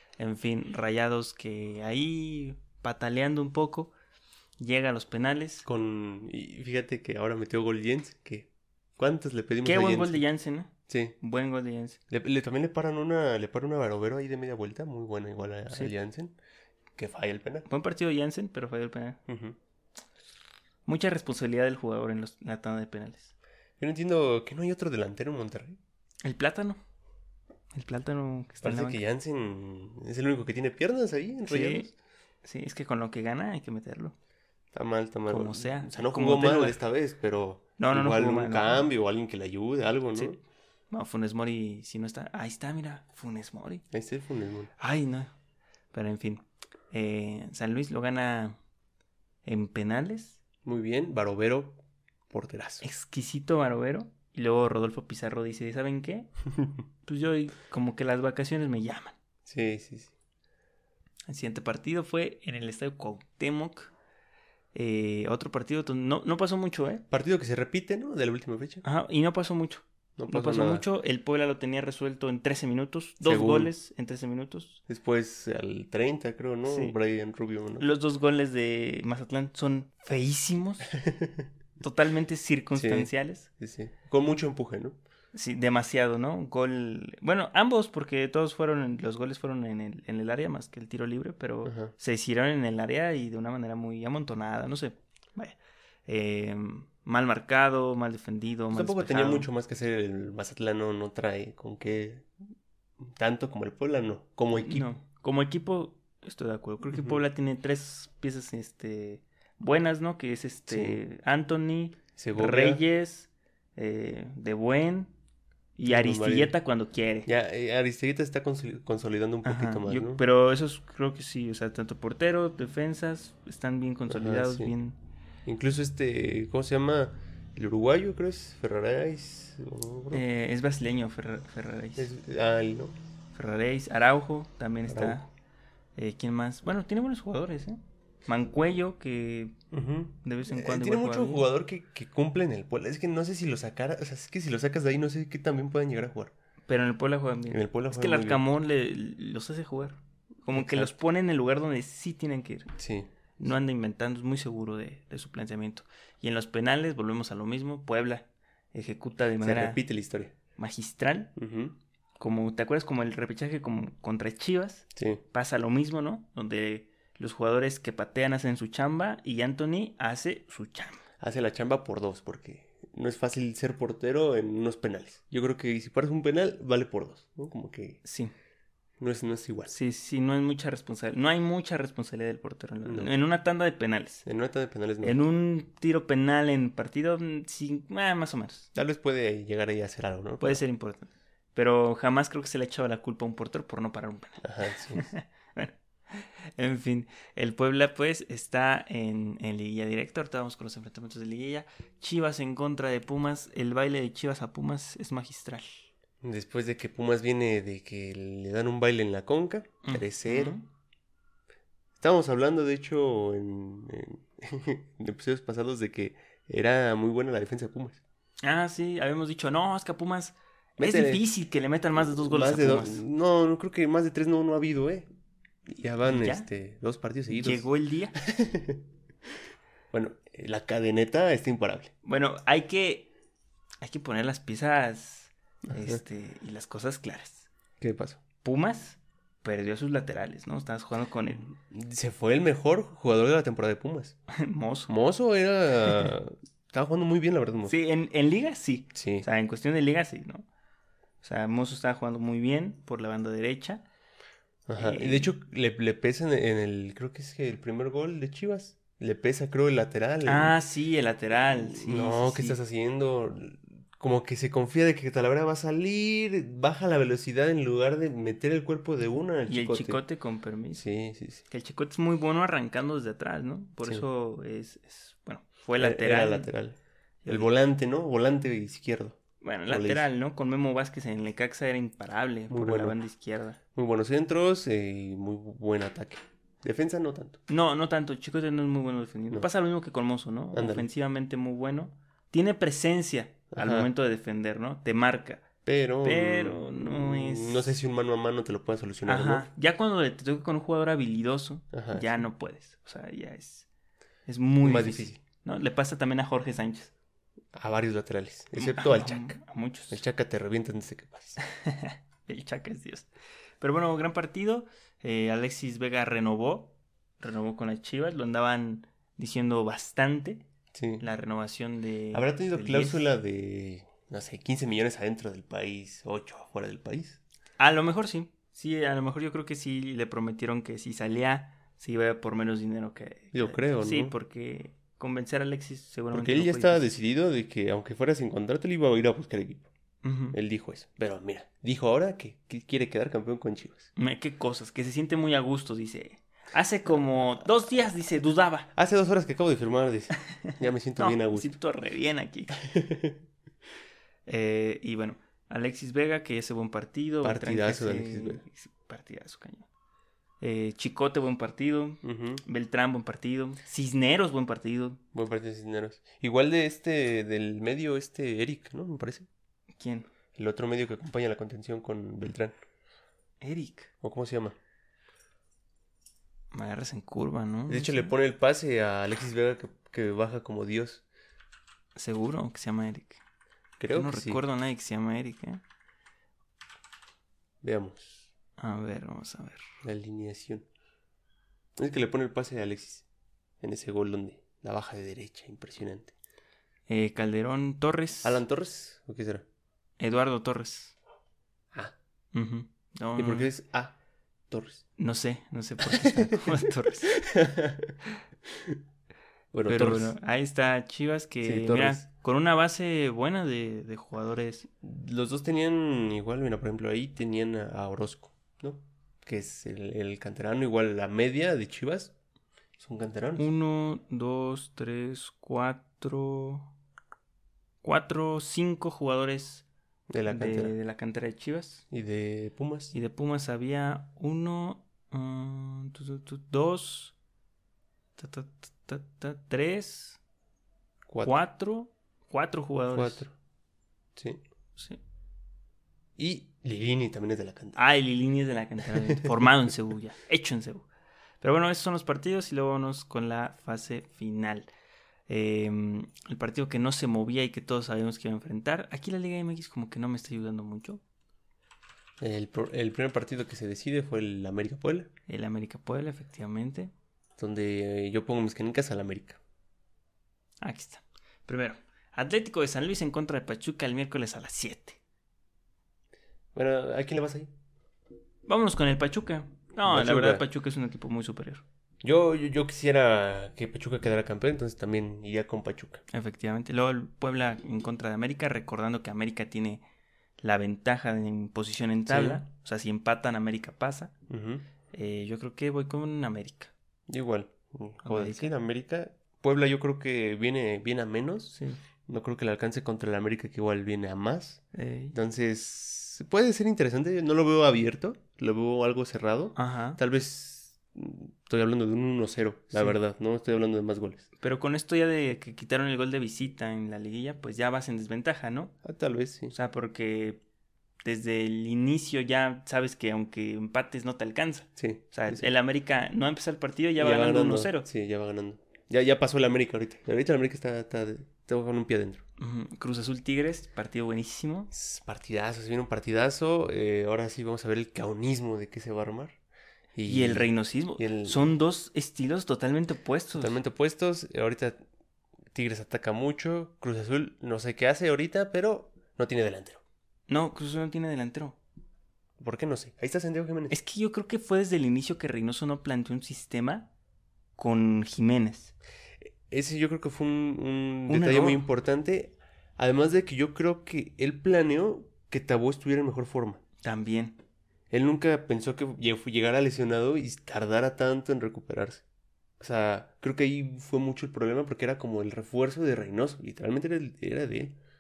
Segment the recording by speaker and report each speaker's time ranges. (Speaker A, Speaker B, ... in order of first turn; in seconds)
Speaker A: 0.2-3.9, 4.6-5.7, 9.6-12.0, 17.7-19.2, 20.9-23.3, 26.2-26.8, 27.7-29.0, 31.5-31.9, 32.4-34.1, 35.3-36.8, 37.8-38.9, 40.9-43.8, 44.8-45.3, 45.9-48.6, 49.5-50.4, 52.8-56.3, 57.0-59.2, 61.3-63.9, 64.7-67.0, 68.8-74.8, 76.7-77.0, 77.8-80.9, 81.8-83.5, 85.3-95.6, 96.1-99.5, 104.6-115.1, 115.8-117.3, 119.4-125.0, 130.1-132.1, 133.3-135.3, 136.0-139.6, 140.2-141.5, 146.7-152.7, 153.4-159.8, 160.6-161.3, 162.2-171.0, 178.0-178.3, 179.7-184.2, 185.0-188.7, 190.4-205.8, 209.8-210.7, 218.4-223.0, 226.0-226.5, 227.3-228.2, 232.0-233.1, 233.8-237.5, 238.4-241.5, 244.3-244.9, 245.8-246.1, 247.7-250.5, 251.2-253.9, 254.8-255.3, 260.2-262.6, 269.5-270.9, 271.5-276.5, 277.2-277.5, 279.4-283.6, 287.5-295.5, 296.0-297.7, 299.1-303.7, 304.3-306.9, 308.6-310.0, 311.5-313.1, 313.6-320.4, 321.0-323.0, 327.6-336.9, 340.0-340.4, 344.0-348.7, 350.2-352.6, 354.3-359.7, 360.4-365.0, 369.8-370.1, 373.4-373.9, 376.5-378.1, 382.0-383.2, 383.9-385.6, 388.6-389.7, 396.9-398.4, 400.0-401.0, 402.3-403.5, 405.0-407.1, 409.7-414.7, 423.4-426.7, 427.8-429.6, 430.3-431.8, 432.9-437.1, 438.2-440.2, 441.2-443.3, 447.8-450.9, 451.4-454.7, 455.3-461.0, 465.3-466.9, 470.6-475.0, 478.5-481.6, 486.1-489.8, 490.4-494.1, 494.9-496.7, 498.0-498.5, 504.7-505.2, 509.6-510.0, 514.4-518.8, 519.5-520.4, 521.0-527.9, 532.4-534.7, 540.0-543.6, 550.3-551.6, 553.7-556.9, 557.6-558.7, 561.1-561.6, 566.8-567.4
Speaker B: 5.7-10.2, 10.9-11.2, 12.1-16.4, 17.0-17.7, 19.3-19.6, 23.8-25.8, 28.6-31.9, 34.7-40.4, 43.9-44.7, 50.6-51.8, 52.3-52.8, 59.5-60.1, 67.1-68.8, 70.2-70.8, 73.2-73.7, 74.9-77.9, 80.9-81.5, 82.7-85.0, 91.6-91.9, 98.7-102.3, 103.0-104.9, 106.9-107.2, 110.7-111.0, 112.2-112.8, 115.9-116.5, 117.2-120.2, 124.1-124.7, 125.5-130.2, 132.0-132.9, 134.9-135.2, 139.7-146.3, 147.5-148.4, 150.5-150.9, 152.8-153.1, 159.4-160.3, 161.4-161.8, 165.0-165.2, 171.2-178.0, 179.0-179.8, 182.8-183.1, 184.2-185.2, 188.8-190.6, 194.4-195.1, 206.2-210.6, 212.0-218.0, 220.8-221.2, 222.0-225.1, 225.7-227.7, 228.2-228.8, 229.9-231.9, 235.7-236.0, 237.8-238.2, 241.6-244.2, 244.9-247.8, 248.9-249.3, 254.7-260.6, 261.5-270.0, 270.7-271.4, 275.8-280.1, 282.5-283.0, 283.8-287.4, 290.5-290.9, 293.5-293.9, 295.6-299.5, 301.7-302.2, 304.6-305.2, 307.5-309.4, 309.9-311.4, 320.7-321.0, 322.1-327.2, 333.3-334.1, 336.1-339.7, 340.3-343.9, 348.7-351.5, 352.6-353.2, 357.2-358.4, 362.0-362.4, 365.1-369.3, 370.4-372.5, 374.0-374.6, 377.7-381.1, 383.8-384.4, 387.6-388.3, 389.8-390.7, 391.8-393.1, 393.6-396.1, 398.2-399.4, 403.2-404.0, 404.5-404.8, 405.9-406.2, 407.1-407.9, 408.5-408.8, 409.5-410.2, 411.4-412.0, 414.8-422.1, 422.8-423.5, 430.1-430.8, 431.9-432.9, 441.1-441.4, 442.9-443.3, 444.2-444.4, 446.2-447.8, 448.9-449.5, 462.2-465.1, 467.4-469.4, 476.5-477.5, 479.9-480.4, 482.0-486.0, 492.1-492.4, 494.3-494.6, 497.1-501.6, 502.1-504.6, 505.1-514.3, 518.8-519.5, 524.8-525.5, 527.0-532.2, 534.7-539.4, 540.0-541.4, 543.3-544.8, 545.5-549.8, 552.4-553.8, 559.5-566.6, 567.9-572.0, 572.6-577.8